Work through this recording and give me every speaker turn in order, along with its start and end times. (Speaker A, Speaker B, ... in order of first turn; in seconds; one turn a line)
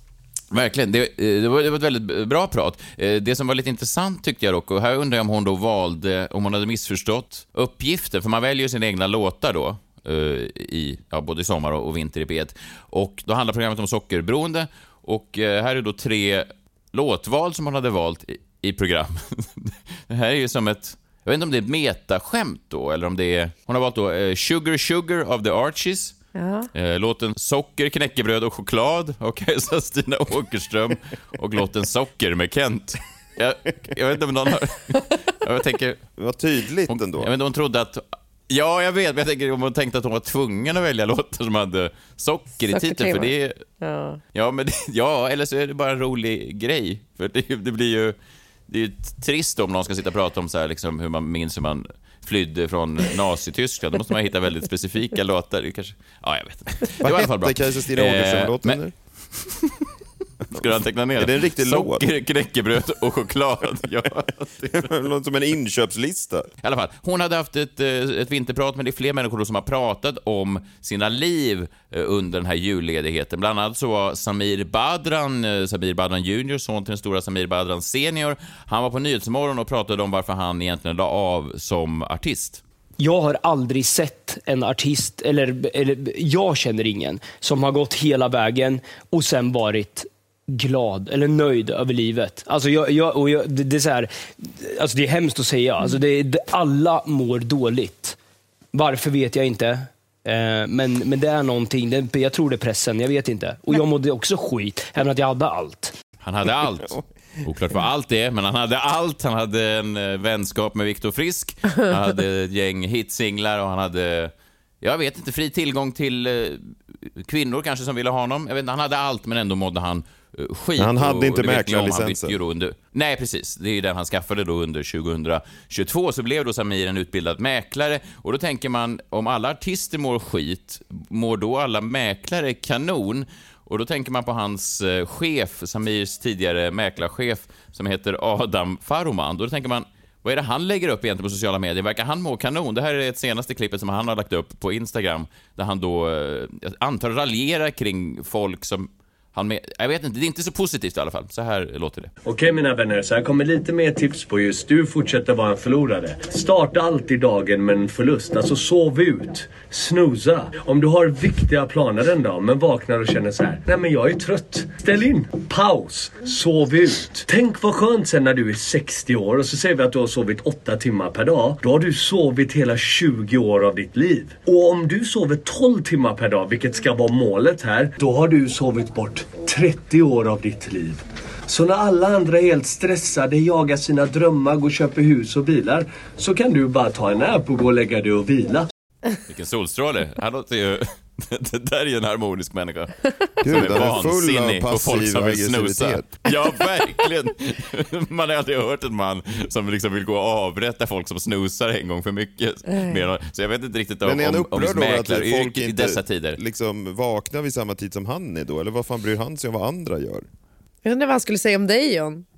Speaker A: 0.5-26.1
Speaker B: 26.3-26.7
Speaker A: 26.7-36.0
Speaker C: 36.2-37.3
Speaker A: 36.9-43.6
Speaker B: 42.7-44.2
Speaker A: 44.3-48.1
Speaker A: 48.7-59.8
Speaker C: 57.0-58.9
Speaker A: 60.5-64.9
Speaker C: 60.5-62.0
Speaker C: 64.7-66.5
Speaker A: 66.6-82.6
Speaker D: 83.0-98.2
Speaker D: 98.7-105.9
Speaker A: 106.2-152.1
Speaker C: 120.8-122.4
Speaker E: 152.2-188.7
Speaker A: 189.3-206.4
Speaker C: 193.4-196.1
Speaker B: 202.7-203.0
Speaker C: 204.0-210.2
Speaker B: 210.8-212.2